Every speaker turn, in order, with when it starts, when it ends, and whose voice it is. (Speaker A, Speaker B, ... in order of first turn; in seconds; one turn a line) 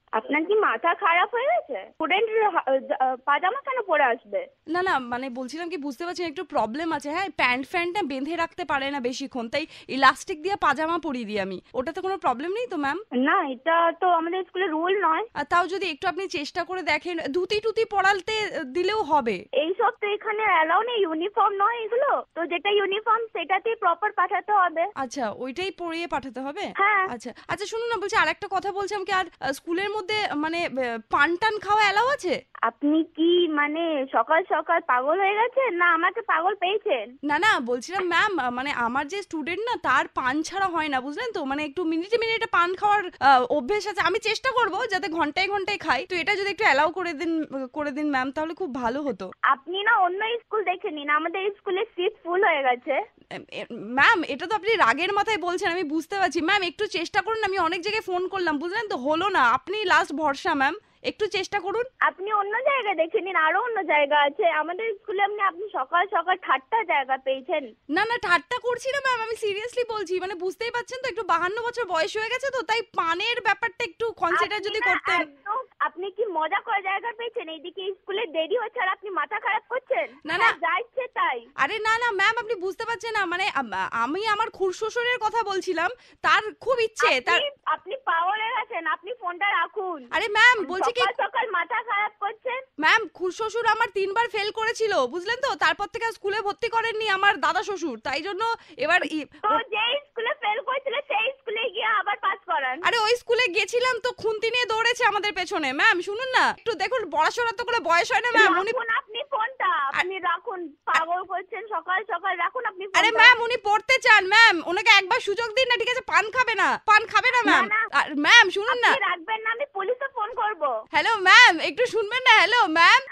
Speaker A: 0.2-4.4
Speaker B: 4.7-13.0
Speaker A: 13.2-15.3
Speaker B: 15.4-19.4
Speaker A: 19.6-24.9
Speaker B: 25.0-32.3
Speaker A: 26.8-27.1
Speaker A: 32.7-37.0
Speaker B: 37.3-49.3
Speaker A: 49.5-53.0
Speaker B: 53.4-61.9
Speaker A: 62.1-67.7
Speaker B: 67.9-75.3
Speaker A: 74.3-81.5
Speaker B: 80.2-80.6
Speaker B: 81.6-87.4
Speaker A: 87.0-90.1
Speaker B: 90.1-91.1
Speaker A: 90.6-92.6
Speaker B: 92.8-99.6
Speaker A: 99.5-102.9
Speaker B: 102.8-108.8
Speaker A: 108.3-113.3
Speaker B: 113.0-119.0
Speaker A: 117.5-117.9
Speaker A: 118.7-120.7
Speaker B: 120.9-123.0